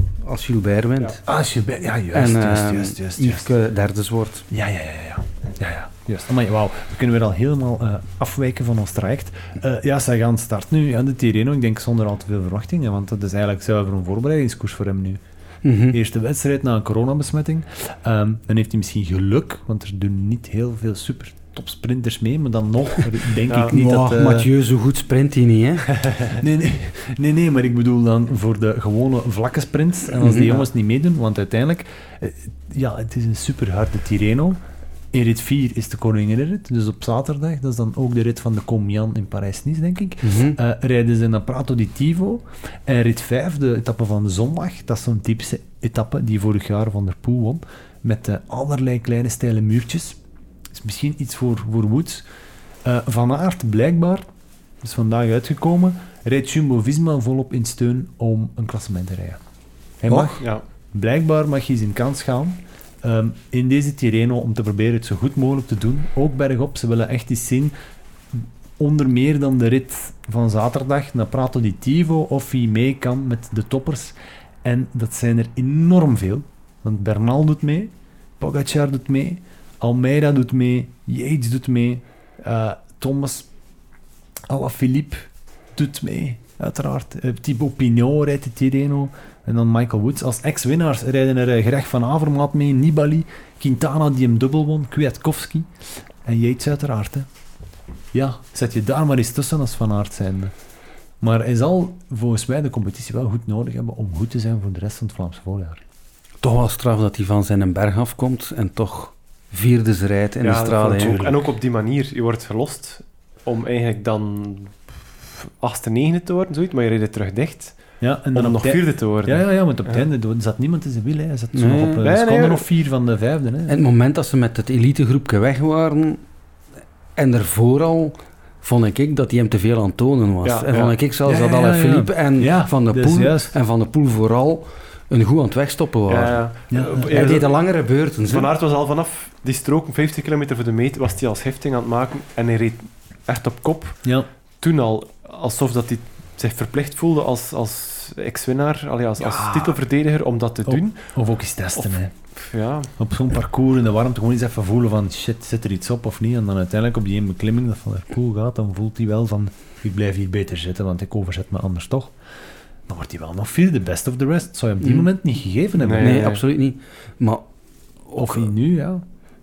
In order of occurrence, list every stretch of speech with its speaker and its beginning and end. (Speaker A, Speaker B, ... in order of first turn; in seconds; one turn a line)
Speaker A: 0.2-1.2
Speaker B: 1.2-3.5
Speaker A: 2.1-4.5
Speaker B: 4.5-15.2
Speaker A: 15.6-16.0
Speaker B: 15.9-24.5
Speaker C: 23.5-23.8
Speaker A: 23.7-25.9
Speaker B: 26.3-50.2
Speaker A: 30.2-30.6
Speaker A: 40.2-40.6
Speaker B: 50.7-52.3
Speaker B: 52.8-54.3
Speaker B: 54.8-59.4
Speaker B: 60.0-67.7
Speaker C: 60.1-60.6
Speaker B: 68.3-83.5
Speaker B: 84.5-97.3
Speaker B: 98.1-100.5
Speaker B: 101.2-105.8
Speaker A: 106.4-111.3
Speaker C: 110.4-120.1
Speaker B: 118.0-123.8
Speaker A: 121.5-122.0
Speaker C: 122.0-122.7
Speaker A: 123.7-126.2
Speaker A: 127.2-138.5
Speaker C: 130.4-130.9
Speaker B: 131.2-133.6
Speaker C: 136.1-137.5
Speaker B: 136.7-137.3
Speaker C: 138.1-151.1
Speaker B: 149.2-149.8
Speaker B: 150.7-152.1
Speaker C: 151.8-152.9
Speaker B: 153.0-162.2
Speaker B: 162.9-166.2
Speaker A: 164.8-165.1
Speaker C: 165.8-166.4
Speaker A: 166.0-167.4
Speaker A: 168.1-168.5
Speaker B: 168.2-169.0